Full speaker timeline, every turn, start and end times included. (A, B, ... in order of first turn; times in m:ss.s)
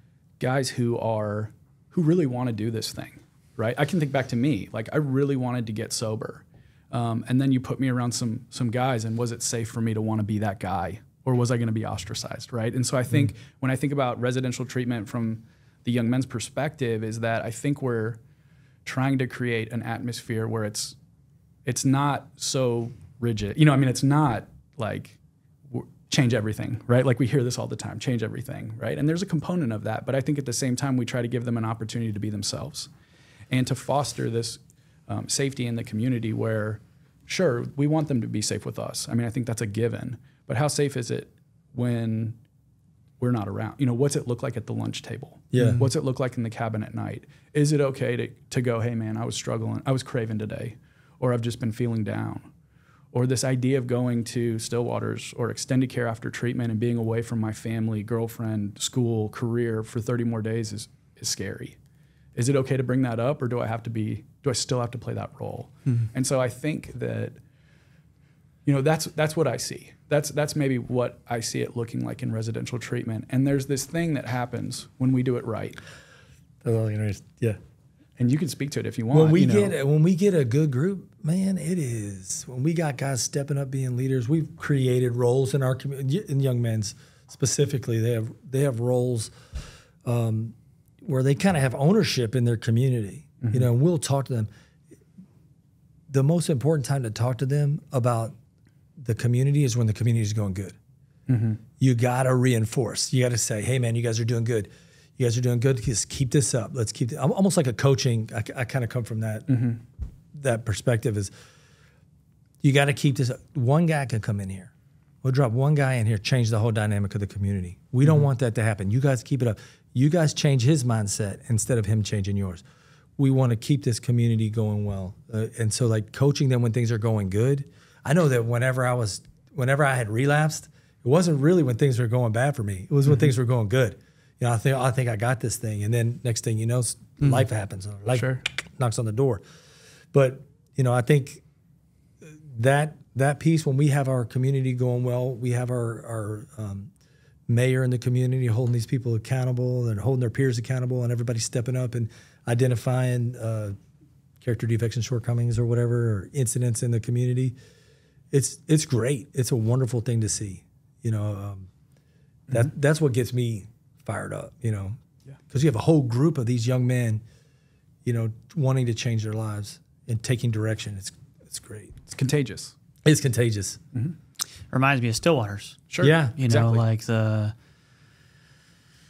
0:00.4-0:18.2 A
0:18.8-0:21.0 A
0:21.6-0:25.2 A
0:25.7-0:32.9 A
0:33.5-0:42.4 A
0:43.2-0:52.4 A
0:45.5-0:45.9 B
0:53.1-1:01.8 A
1:02.4-1:07.4 A
1:08.7-1:15.8 A
1:16.6-1:17.6 B
1:18.2-1:19.8 A
1:19.1-1:29.3 B
1:30.0-1:34.5 B
1:33.4-1:33.7 A
1:36.1-1:38.4 B
1:39.0-1:40.8 B
1:41.3-1:41.6 A
1:41.8-1:49.6 B
1:49.5-1:49.8 A
1:50.3-1:51.3 B
1:52.6-1:54.7 B
1:55.2-2:02.6 B
2:03.2-2:19.4 B
2:18.1-2:18.4 A
2:20.1-2:21.4 B
2:22.2-2:26.9 B
2:27.5-2:33.8 B
2:34.4-2:37.6 B
2:38.3-2:41.7 B
2:42.5-2:45.0 B
2:45.5-2:47.2 B
2:48.0-2:52.0 B
2:52.1-2:52.7 A
2:53.0-2:53.8 B
2:54.7-2:55.8 C
2:55.9-2:56.8 A
2:56.0-2:56.4 B
2:56.4-2:57.5 C